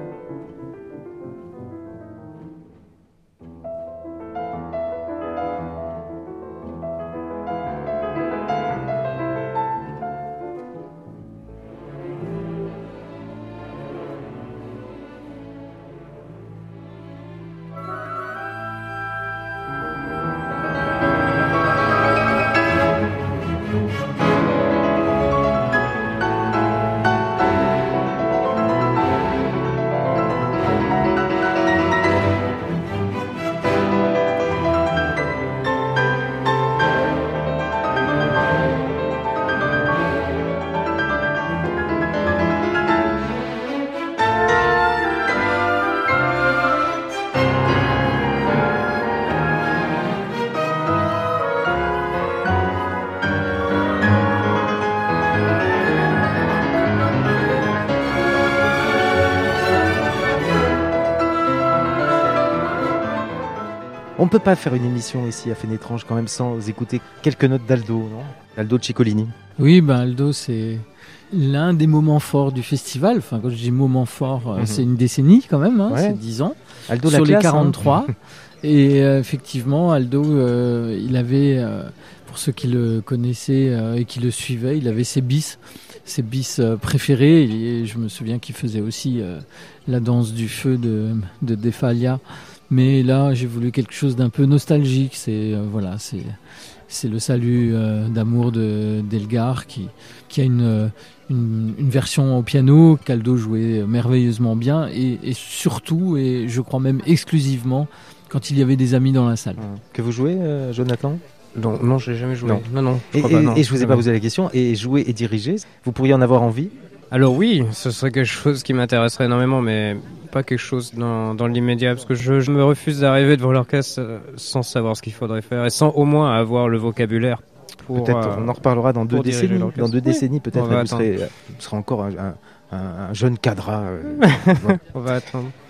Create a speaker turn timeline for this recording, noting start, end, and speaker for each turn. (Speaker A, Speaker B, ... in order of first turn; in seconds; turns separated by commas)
Speaker A: 64.2-69.3, Speaker B: 69.6-96.4, Speaker A: 74.6-74.9, Speaker A: 75.9-76.2, Speaker A: 76.9-78.0, Speaker B: 96.9-109.7, Speaker A: 109.6-111.2, Speaker C: 111.5-114.1, Speaker A: 112.4-116.7, Speaker C: 117.1-131.1, Speaker A: 127.9-134.8, Speaker C: 134.2-135.6